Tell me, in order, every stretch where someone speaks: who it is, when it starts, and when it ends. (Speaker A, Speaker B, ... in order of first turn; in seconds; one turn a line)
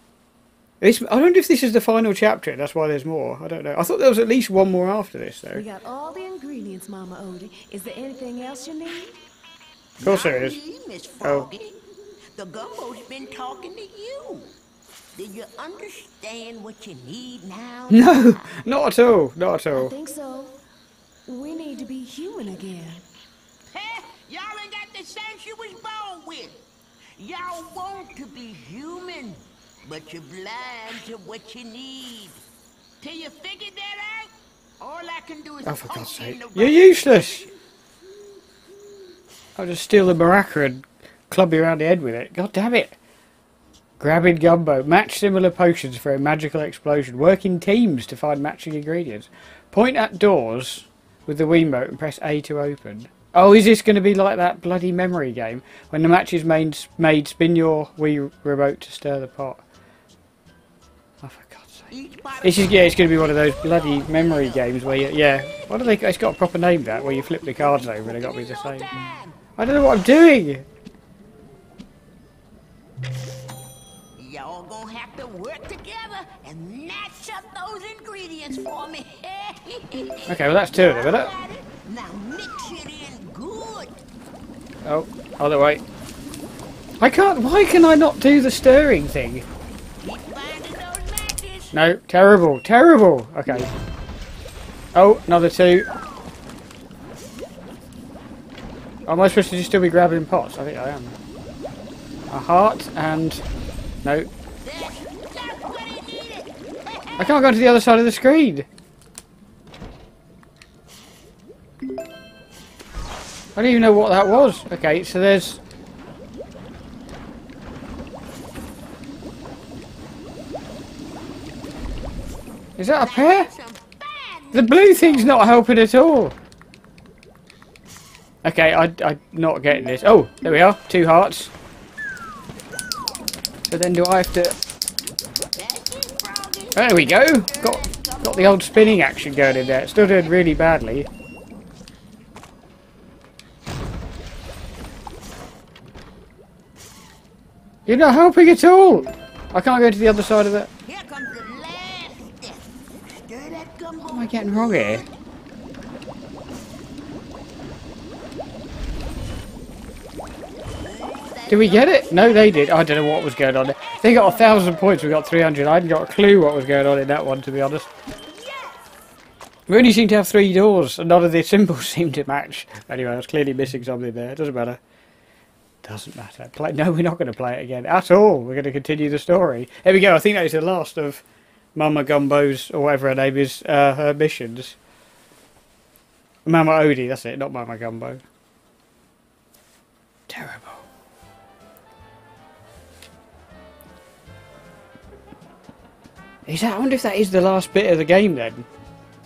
Speaker A: 0.8-5.6
Speaker B: 5.5-9.2
Speaker C: 10.0-11.8
Speaker A: 10.0-10.6
Speaker A: 11.2-11.5
Speaker C: 12.3-14.5
Speaker C: 15.2-18.4
Speaker A: 17.9-19.9
Speaker B: 19.7-20.6
Speaker B: 21.2-23.0
Speaker C: 23.7-26.6
Speaker C: 27.2-32.4
Speaker C: 33.0-37.5
Speaker A: 35.6-37.5
Speaker A: 39.6-43.0
Speaker A: 44.0-59.6
Speaker A: 61.2-61.9
Speaker C: 61.9-65.0
Speaker A: 62.4-68.9
Speaker C: 67.7-69.4
Speaker A: 69.6-70.6
Speaker C: 74.2-84.0
Speaker A: 80.3-81.3
Speaker A: 84.8-85.8
Speaker A: 87.0-89.4
Speaker C: 90.0-91.8
Speaker A: 91.7-93.7
Speaker A: 94.9-95.9
Speaker A: 99.1-101.2
Speaker A: 102.3-103.4
Speaker A: 104.0-104.3
Speaker C: 104.6-107.4
Speaker A: 107.2-108.7
Speaker A: 113.5-115.6
Speaker A: 122.8-123.5
Speaker C: 123.0-125.6
Speaker A: 124.5-126.3
Speaker A: 128.4-131.5
Speaker A: 133.7-134.6
Speaker C: 135.6-140.4
Speaker A: 136.7-141.1
Speaker A: 147.9-150.7
Speaker C: 150.8-155.1
Speaker A: 154.1-155.0
Speaker C: 160.7-162.8
Speaker A: 161.5-167.9
Speaker C: 168.3-168.9
Speaker A: 169.7-174.8
Speaker A: 175.8-181.2
Speaker A: 181.7-184.8
Speaker A: 186.4-188.2
Speaker A: 190.3-190.8
Speaker A: 196.5-198.7